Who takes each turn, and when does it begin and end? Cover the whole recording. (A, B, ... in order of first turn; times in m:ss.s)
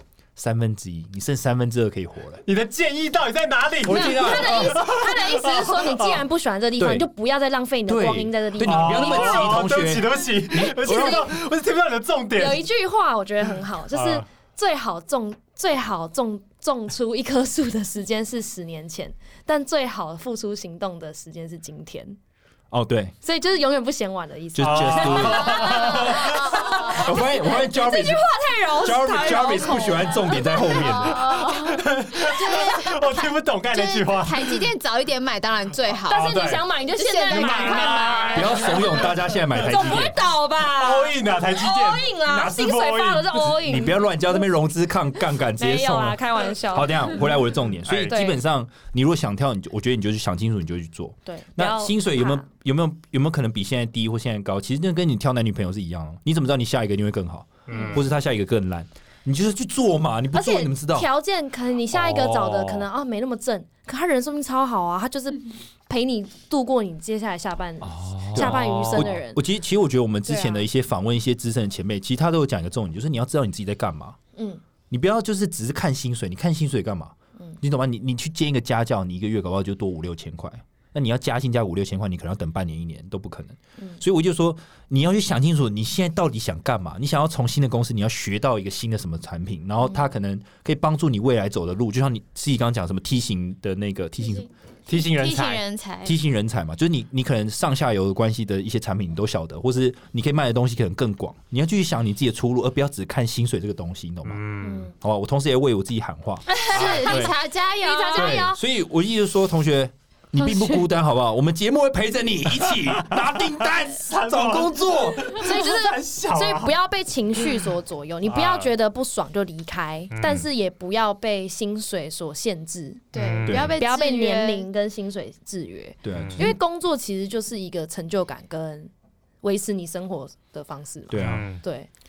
0:00.4-0:02.4 A
0:02.4-0:06.2 B
0:03.8-0:04.8 A
0:03.9-0:09.7 C
0:06.8-0:07.1 A
0:07.9-0:11.3 A
0:08.6-0:12.6 B
0:10.9-0:11.2 C
0:12.4-0:22.2 C
0:13.9-0:14.2 B
0:22.7-0:23.2 A
0:23.2-0:31.0 C
0:24.6-0:25.9 A
0:24.6-0:26.8 B
0:26.2-0:27.0 D
0:26.9-0:28.3 A
0:28.8-0:31.4 A
0:30.7-0:38.8 D
0:31.5-0:34.6 B
0:36.1-0:44.0 C
0:36.1-0:36.7 B
0:37.3-0:40.1 B
0:38.3-0:40.2 A
0:40.6-0:43.5 B
0:43.4-1:01.1 A
0:45.6-0:47.3 C
0:47.8-0:48.2 B
0:48.1-0:48.4 C
0:51.3-0:52.5 C
0:57.7-0:58.0 B
0:57.7-0:58.0 C
1:00.3-1:09.4 C
1:01.9-1:02.9 B
1:07.8-1:09.2 B
1:08.3-1:14.2 A
1:10.3-1:10.7 C
1:14.4-1:14.6 C
1:14.9-1:34.5 A
1:34.9-1:35.6 B
1:34.9-1:36.2 D
1:36.0-1:44.4 A
1:44.2-1:44.9 B
1:44.6-1:44.9 C
1:45.0-1:47.4 A
1:46.6-1:47.3 C
1:46.7-1:48.5 D
1:47.8-1:48.6 C
1:48.1-1:55.4 A
1:50.4-1:50.8 C
1:52.6-1:53.4 B
1:54.0-1:56.8 B
1:55.3-2:08.9 C
1:58.2-1:58.7 B
2:00.1-2:00.4 B
2:03.1-2:03.8 B
2:03.1-2:04.7 D
2:03.4-2:03.8 A
2:06.0-2:06.6 A
2:06.1-2:06.6 B
2:09.4-2:11.9 C
2:11.1-2:11.5 A
2:11.2-2:11.6 B